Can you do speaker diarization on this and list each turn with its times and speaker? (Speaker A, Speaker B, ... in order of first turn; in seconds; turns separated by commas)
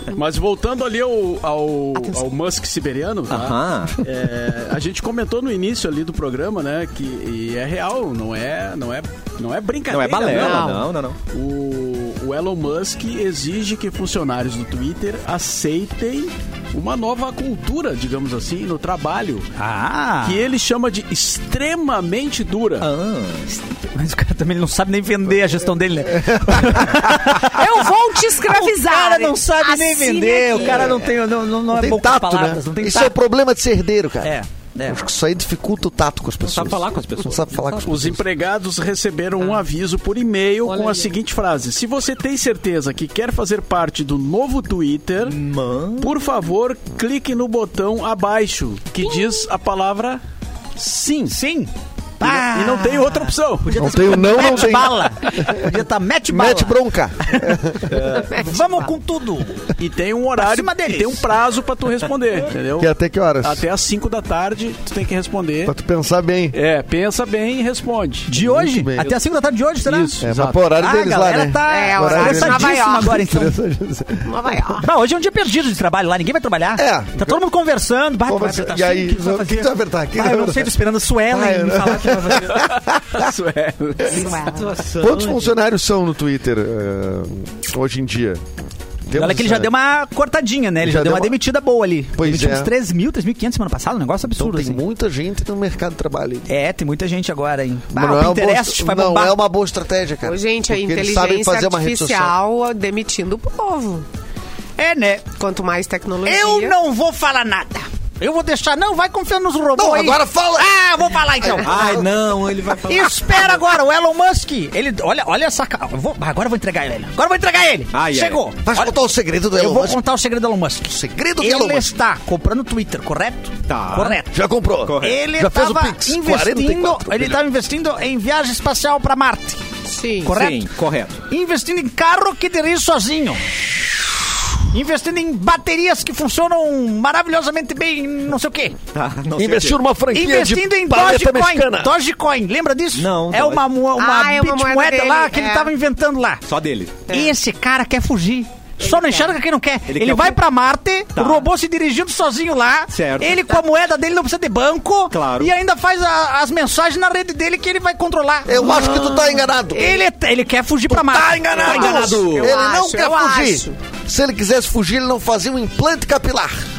Speaker A: 0.1-10.7, Speaker B: 3.3-4.0, Speaker B: 9.9-11.2, Speaker C: 10.3-10.9, Speaker A: 11.3-19.5, Speaker D: 19.6-20.4, Speaker A: 20.2-22.9, Speaker B: 22.8-23.5, Speaker D: 23.5-33.2, Speaker E: 26.1-27.4, Speaker C: 27.4-31.0, Speaker B: 30.6-30.9, Speaker E: 30.6-31.1, Speaker E: 31.7-34.4, Speaker D: 34.2-35.0, Speaker E: 34.9-38.2, Speaker B: 36.4-38.0, Speaker A: 37.8-45.4, Speaker B: 45.2-46.1, Speaker A: 46.0-50.2, Speaker D: 50.8-56.8, Speaker A: 52.2-54.5, Speaker E: 53.8-55.7, Speaker E: 56.3-58.2, Speaker D: 57.3-59.7, Speaker C: 58.1-58.9, Speaker A: 59.8-65.7, Speaker D: 60.4-61.3, Speaker E: 62.8-63.6, Speaker E: 65.7-66.6, Speaker A: 66.5-68.4, Speaker D: 68.3-73.6, Speaker E: 68.4-69.1, Speaker A: 69.8-70.7, Speaker E: 70.2-74.6, Speaker C: 71.7-73.2, Speaker C: 74.2-74.9, Speaker D: 74.8-82.7, Speaker E: 76.8-77.4, Speaker E: 78.2-83.3, Speaker A: 82.5-84.5, Speaker C: 84.1-84.6, Speaker B: 84.1-85.6, Speaker E: 85.0-88.4, Speaker E: 89.1-89.7, Speaker D: 89.1-94.8, Speaker E: 90.8-91.4, Speaker E: 92.2-92.7, Speaker E: 94.4-96.5, Speaker D: 96.5-99.4, Speaker E: 97.9-102.3, Speaker C: 100.2-104.1, Speaker D: 104.8-105.3, Speaker C: 105.4-106.8, Speaker D: 106.2-111.8, Speaker E: 109.8-110.7, Speaker E: 111.4-112.1, Speaker B: 111.6-113.6, Speaker D: 112.9-118.9, Speaker B: 117.9-118.4, Speaker E: 118.6-120.0, Speaker D: 119.5-124.4, Speaker E: 120.9-121.9, Speaker B: 123.7-124.2, Speaker E: 124.3-127.4, Speaker B: 124.8-125.2, Speaker D: 125.0-129.6, Speaker C: 129.9-130.3, Speaker D: 130.2-130.7, Speaker B: 130.3-131.2, Speaker D: 131.3-133.6, Speaker D: 134.6-138.8, Speaker B: 138.9-139.8, Speaker E: 139.4-141.9, Speaker D: 140.1-146.4, Speaker B: 142.9-143.6, Speaker C: 144.0-145.7, Speaker B: 146.5-147.0, Speaker C: 147.1-147.3, Speaker D: 147.1-159.0, Speaker C: 148.8-149.3, Speaker B: 149.9-150.4, Speaker B: 151.2-151.5, Speaker B: 152.9-153.5, Speaker B: 155.1-155.5, Speaker E: 158.5-159.9, Speaker C: 158.7-160.0, Speaker D: 159.7-162.3, Speaker E: 160.9-166.5, Speaker B: 161.6-162.6, Speaker C: 161.6-163.8